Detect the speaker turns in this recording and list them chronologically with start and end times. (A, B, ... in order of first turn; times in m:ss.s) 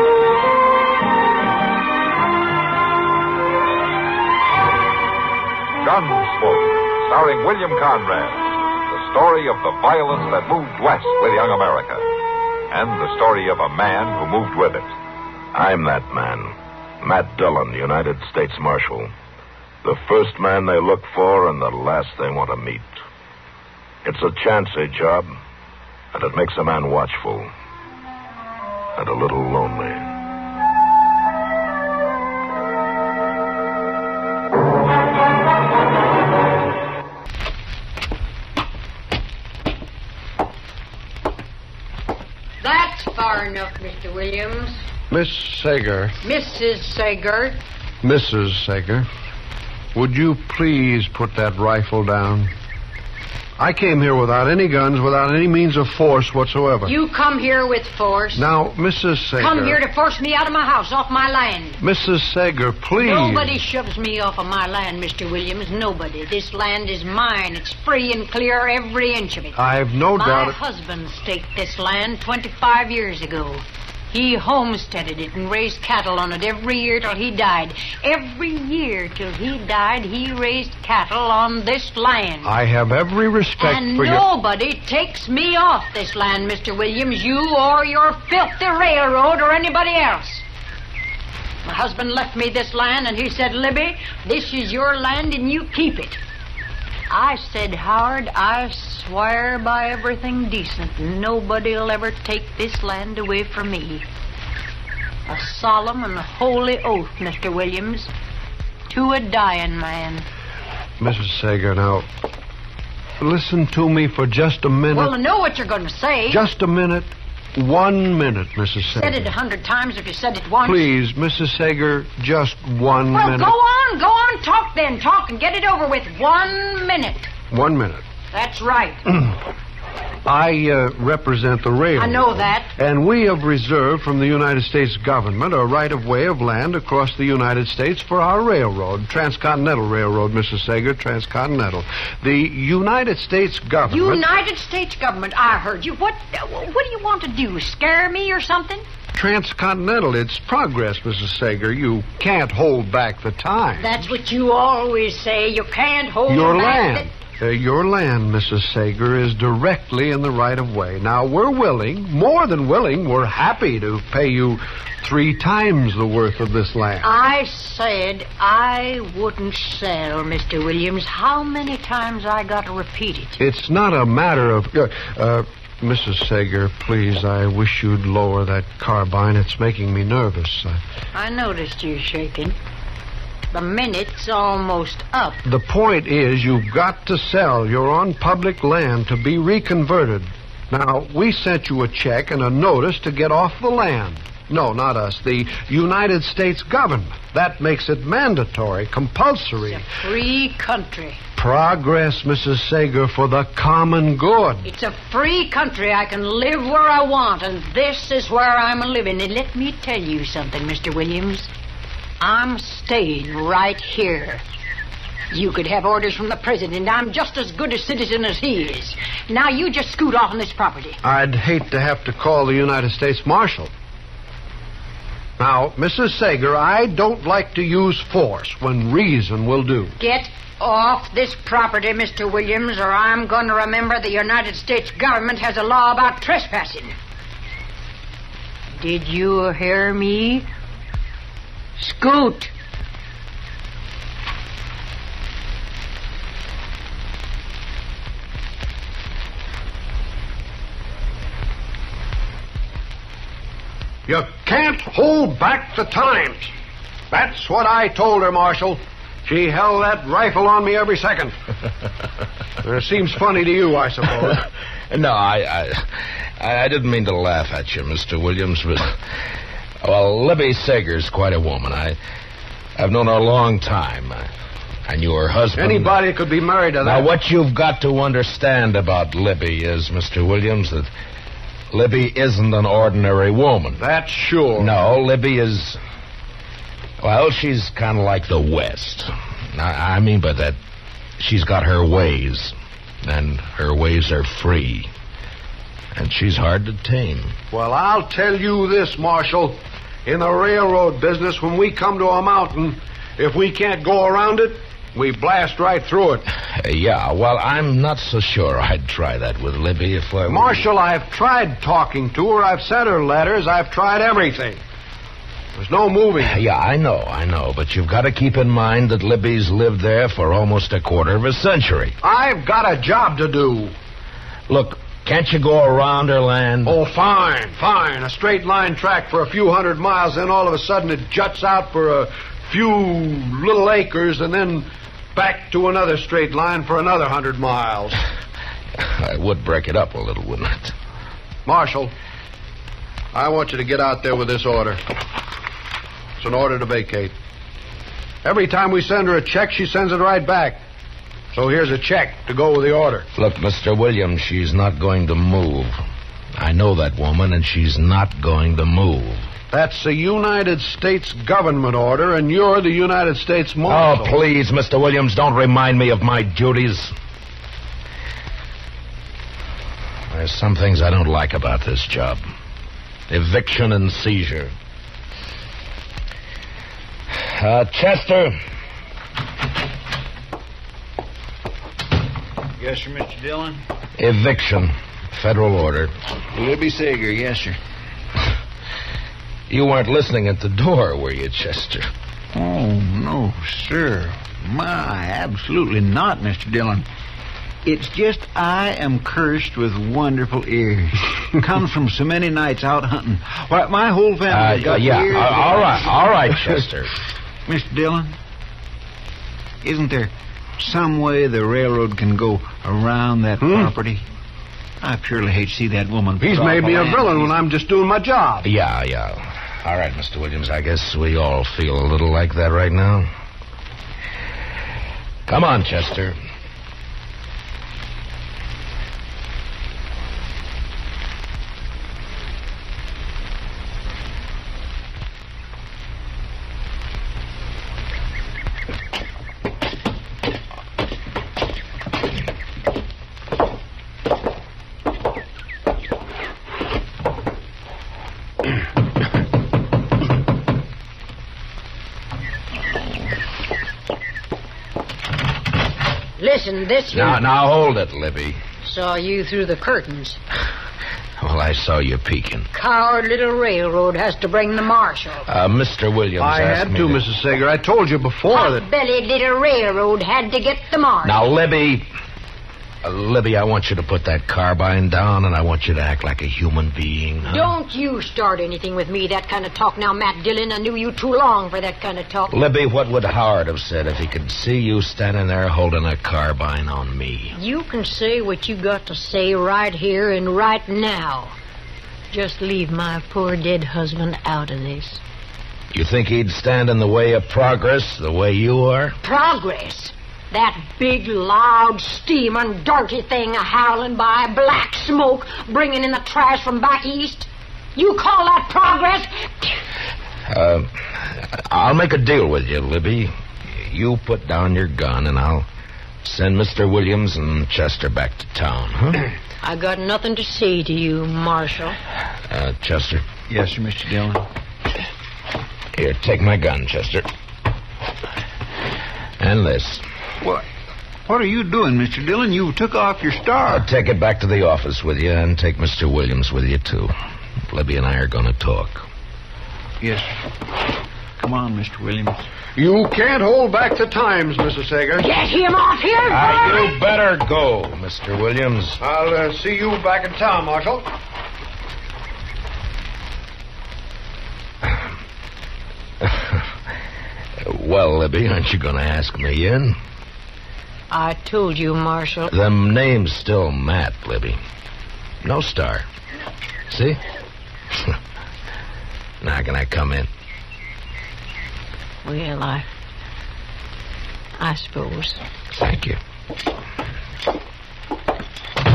0:05.8-0:12.0 A
0:12.7-0:14.9 A
0:15.5-0:19.1 B
0:19.8-0:22.9 B
0:24.0-0:25.3 B
0:26.1-0:27.5 B
0:29.0-0:30.1 B
0:42.6-0:44.8 C
0:45.1-0:46.2 D
0:46.2-0:47.6 C
0:48.0-0:49.1 D
0:50.0-0:52.5 D
0:53.6-0:56.9 D
0:56.8-0:58.5 C
0:58.4-0:59.8 D
0:59.4-1:01.8 C
1:01.8-1:03.6 D
1:03.0-1:09.6 C
1:09.6-1:10.6 D
1:10.1-1:22.5 C
1:22.4-1:24.2 D
1:23.6-1:30.4 C
1:31.6-1:36.2 C
1:37.1-1:44.1 C
1:45.3-1:48.1 C
1:48.9-1:50.3 C
1:51.0-1:52.1 D
1:53.2-1:55.1 D
1:54.9-1:56.4 C
1:56.3-1:59.2 D
1:58.9-2:00.9 C
2:00.6-2:03.5 D
2:03.1-2:07.3 C
2:07.5-2:08.0 D
2:08.3-2:09.2 C
2:10.3-2:24.2 D
2:12.0-2:12.7 C
2:23.9-2:28.8 C
2:29.1-2:33.9 D
2:33.8-2:37.1 C
2:36.3-2:47.1 D
2:47.0-2:53.4 C
2:53.4-3:00.8 D
3:01.1-3:02.6 C
3:03.5-3:05.4 C
3:05.4-3:19.8 D
3:19.6-3:21.2 C
3:21.4-3:24.7 D
3:24.6-3:31.5 C
3:32.2-3:34.4 C
3:35.3-3:41.0 C
3:41.0-3:43.7 D
3:45.4-3:50.0 D
3:50.0-3:57.0 C
3:58.7-4:00.5 C
4:01.8-4:02.5 C
4:14.1-4:16.5 D
4:17.1-4:21.3 D
4:22.6-4:24.4 D
4:24.9-4:29.0 B
4:29.8-4:32.0 B
4:32.8-4:34.3 B
4:34.9-4:36.1 B
4:35.6-4:37.1 D
4:36.8-4:40.9 B
4:41.7-4:43.9 B
4:43.8-4:44.8 D
4:44.6-4:45.8 B
4:47.0-4:50.6 B
4:51.2-4:54.9 B
4:55.9-4:57.4 B
4:57.5-5:06.3 D
5:06.6-5:10.7 B
5:10.3-5:14.6 D
5:15.6-5:16.4 D
5:16.2-5:22.0 B
5:22.0-5:23.7 D
5:24.5-5:26.8 B
5:26.6-5:38.0 D
5:38.8-5:40.7 B
5:41.5-5:41.9 D
5:43.1-5:44.8 D
5:46.2-5:47.1 D
5:48.2-5:50.6 D
5:51.3-5:53.1 D
5:53.2-5:55.8 B
5:56.4-5:59.3 B
5:59.5-6:04.2 D
6:03.7-6:06.9 B
6:10.1-6:12.2 B
6:13.1-6:14.5 B
6:17.2-6:18.4 B
6:22.6-6:23.6 E
6:24.0-6:25.9 B
6:26.3-6:27.6 E
6:29.5-6:31.9 B
6:32.4-6:36.9 E
6:37.6-6:45.9 E
6:44.3-6:46.9 B
6:47.5-6:48.2 E
6:49.6-6:54.0 E
6:53.4-6:53.7 D
6:54.8-6:57.3 E
6:56.2-6:58.5 D
6:58.4-7:03.1 B
7:05.3-7:06.2 B
7:36.2-7:37.2 C
7:36.9-7:38.4 B
7:38.6-7:40.2 C
7:41.2-7:42.5 B
7:42.5-7:45.3 C
7:45.3-7:47.0 B
7:46.2-7:48.7 D
7:48.3-7:51.2 C
7:51.0-7:51.9 B
7:52.8-7:57.5 B
7:57.2-8:02.4 C
8:02.3-8:07.4 B
8:07.3-8:11.4 C
8:12.1-8:15.0 C
8:15.7-8:19.0 B
8:19.0-8:29.6 C
8:30.3-8:35.5 B
8:36.0-8:39.1 B
8:39.4-8:41.8 C
8:42.3-8:43.0 B
8:43.3-8:44.3 E
8:45.7-8:47.1 B
8:49.2-8:49.8 B
8:51.1-8:53.7 E
8:53.5-8:56.9 B
8:57.5-8:58.9 B
8:59.8-9:00.1 E
9:01.2-9:02.2 E
9:02.6-9:05.1 D
9:05.0-9:06.7 C
9:06.1-9:08.8 B
9:08.8-9:10.9 D
9:16.0-9:16.4 B
9:17.4-9:19.8 B
9:20.9-9:22.3 C
9:22.3-9:24.4 B
9:25.2-9:25.9 B
9:26.7-9:27.0 B
9:29.2-9:30.1 B
9:32.0-9:32.7 C
9:34.4-9:35.2 C
9:35.5-9:36.0 B